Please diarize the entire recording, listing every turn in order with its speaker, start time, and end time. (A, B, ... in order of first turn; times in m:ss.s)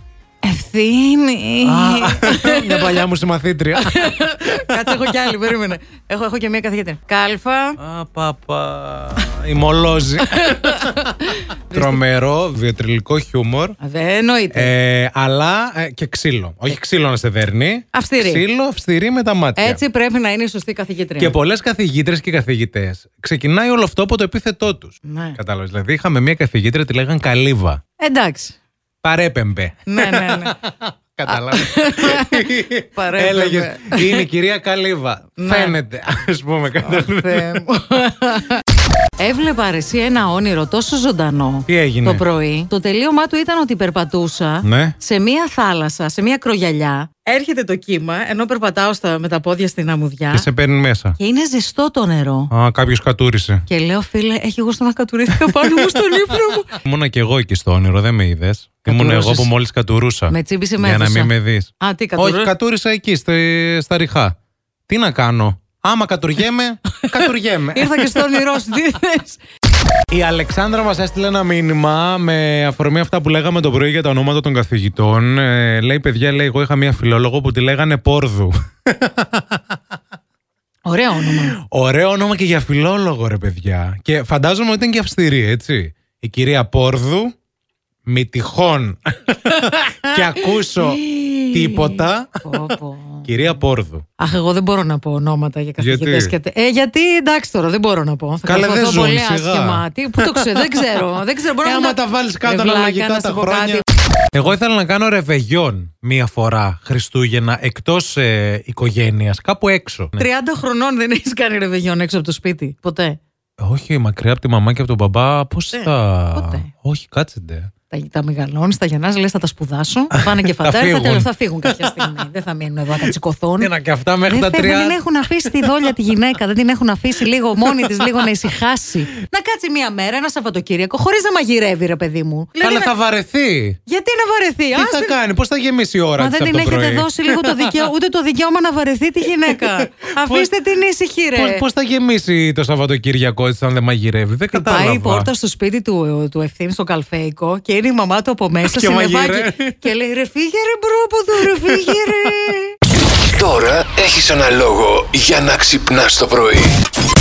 0:00.4-0:03.0 A
0:01.6-0:05.3 B
0:03.8-0:07.8 A
0:07.8-0:13.8 B
0:10.3-0:11.5 A
0:13.8-0:14.7 A
0:14.5-0:19.8 B
0:17.9-0:18.4 A
0:19.6-0:21.3 A
0:21.2-0:27.8 B
0:25.0-0:25.4 A
0:28.0-0:28.5 A
0:29.0-0:37.6 B
0:29.9-0:30.5 A
0:31.3-0:32.4 A
0:32.9-0:34.2 A
0:35.4-0:35.7 A
0:36.9-0:38.6 A
0:39.2-0:50.4 A
0:41.7-0:42.2 B
0:44.6-0:45.0 B
0:50.3-0:51.2 B
0:51.2-0:52.5 A
0:52.5-0:53.6 B
0:53.7-0:56.7 A
0:55.3-1:04.4 B
0:58.9-0:59.5 A
1:00.3-1:02.5 A
1:04.9-1:08.4 B
1:07.1-1:09.4 A
1:10.1-1:19.6 B
1:20.8-1:21.5 A
1:21.2-1:27.3 B
1:28.0-1:34.0 B
1:29.7-1:33.2 A
1:34.2-1:43.8 A
1:35.8-1:36.4 B
1:38.4-1:50.3 B
1:50.2-1:53.2 A
1:53.6-1:57.7 B
1:55.7-1:56.6 A
1:57.9-2:03.7 A
2:00.1-2:02.2 B
2:03.0-2:06.0 B
2:04.3-2:12.9 A
2:07.6-2:08.5 B
2:12.6-2:13.8 B
2:13.8-2:15.2 A
2:14.7-2:17.9 B
2:16.2-2:21.6 A
2:19.2-2:20.5 B
2:21.3-2:25.3 B
2:24.5-2:32.8 A
2:28.6-2:29.8 B
2:31.4-2:32.5 B
2:33.3-2:36.8 C